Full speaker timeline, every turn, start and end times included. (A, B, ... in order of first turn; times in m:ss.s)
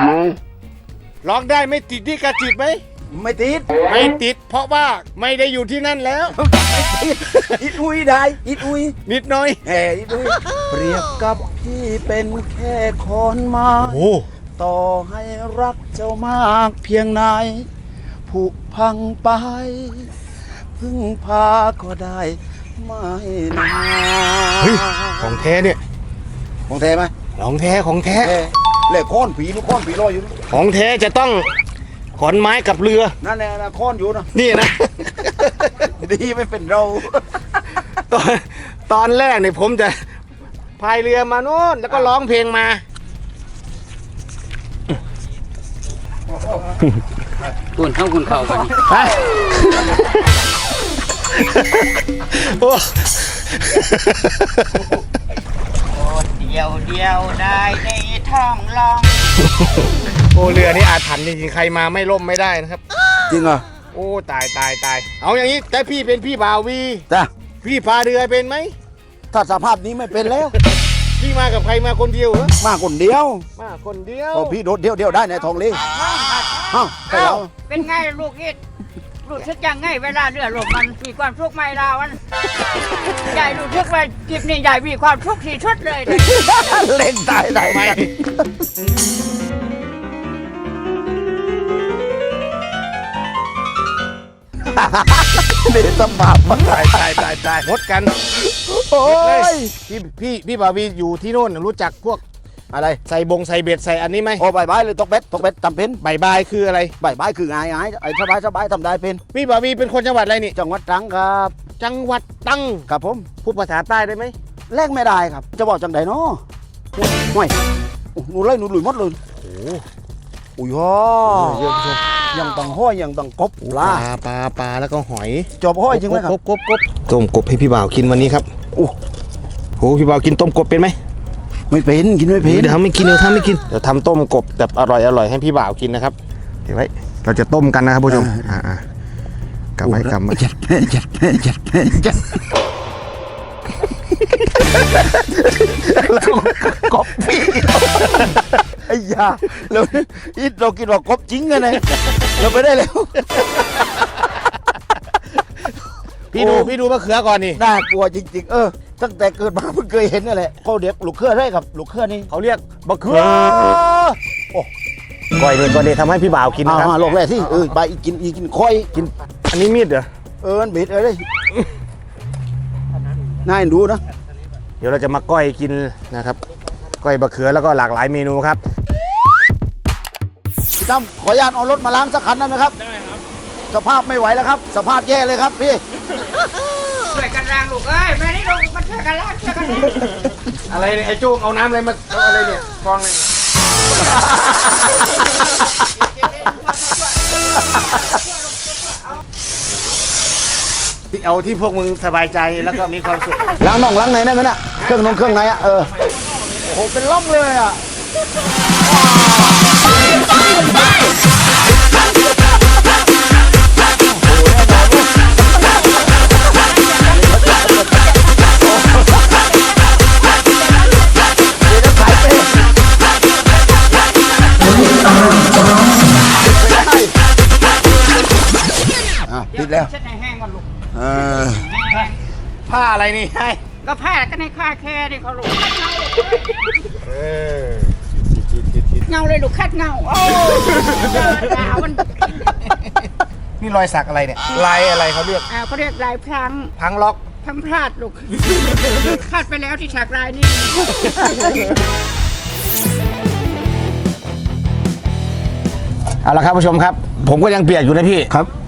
0:01.2-0:02.8 A
0:03.1-0:03.7 B
0:03.8-0:06.4 A
0:06.3-0:09.0 B
0:07.3-0:07.7 A
0:09.1-0:09.6 A
0:09.6-0:14.0 B
0:10.2-0:10.6 A
0:13.8-0:14.2 A
0:14.6-0:17.7 B
0:18.3-0:20.1 B
0:20.8-0:25.2 B
0:24.6-0:25.8 A
0:26.7-0:27.1 B
0:27.4-0:28.3 A
0:28.2-0:30.4 B
0:30.5-0:31.5 A
0:32.2-0:33.2 A
0:33.2-0:34.3 B
0:34.3-0:35.9 A
0:35.8-0:37.3 B
0:37.9-0:40.1 A
0:40.8-0:42.8 A
0:47.8-0:48.8 C
0:48.9-0:50.2 A
0:51.3-0:54.9 A
0:55.9-0:59.5 C
1:00.3-1:02.8 A
1:03.3-1:03.6 B
1:03.9-1:07.1 A
1:07.6-1:08.8 A
1:09.3-1:10.6 B
1:11.2-1:12.6 A
1:12.6-1:13.5 B
1:13.6-1:14.6 A
1:14.3-1:15.8 B
1:15.7-1:18.6 C
1:16.7-1:17.5 B
1:19.2-1:22.2 C
1:23.2-1:26.7 C
1:26.1-1:28.5 B
1:27.6-1:28.1 A
1:34.7-1:37.5 B
1:36.5-1:38.4 A
1:38.4-1:39.7 B
1:39.0-1:42.2 A
1:42.7-1:43.0 B
1:43.1-1:44.5 A
1:44.4-1:46.0 B
1:46.0-1:47.0 A
1:47.0-1:49.2 B
1:49.3-1:50.6 A
1:50.5-1:51.6 B
1:51.8-1:52.9 A
1:52.9-1:53.3 B
1:53.4-1:54.4 A
1:54.7-1:56.4 B
1:57.0-1:57.6 B
1:58.1-1:59.2 B
1:59.4-1:59.9 A
2:00.6-2:01.7 B
2:01.3-2:02.0 A
2:02.3-2:04.1 B
2:03.6-2:08.5 A
2:05.6-2:06.4 B
2:09.8-2:11.0 A
2:11.7-2:12.8 B
2:12.4-2:18.8 A
2:18.1-2:18.5 B
2:19.8-2:20.4 A
2:19.8-2:22.4 B
2:24.6-2:33.5 B
2:25.9-2:26.7 A
2:27.8-2:28.4 A
2:36.3-2:37.6 A
2:36.3-2:36.7 B
2:37.6-2:42.3 B
2:42.3-2:43.8 A
2:43.0-2:44.7 B
2:45.4-2:47.7 A
2:46.6-2:49.1 B
2:48.9-2:50.1 A
2:50.4-2:51.2 B
2:53.4-2:54.0 B
2:54.8-2:56.4 A
2:57.0-2:58.6 A
3:00.8-3:02.8 B
3:03.7-3:05.8 B
3:07.0-3:10.1 C
3:10.7-3:13.2 A
3:14.0-3:15.1 B
3:16.4-3:17.0 C
3:21.1-3:23.5 A
3:23.6-3:27.8 B
3:34.1-3:36.0 B
3:36.9-3:38.2 B
3:41.6-3:42.6 B
3:44.6-3:45.2 C
3:46.4-3:47.1 B
3:49.2-3:49.9 B
3:49.5-3:52.2 C
3:50.9-3:51.7 B
3:52.7-3:53.6 A
3:53.8-3:56.8 C
3:57.0-3:58.0 A
3:58.6-3:59.0 A
3:59.1-4:02.6 C
4:00.8-4:01.4 A
4:03.6-4:05.5 A
4:05.5-4:06.7 C
4:06.8-4:07.3 A
4:07.4-4:11.5 C
4:16.2-4:18.3 A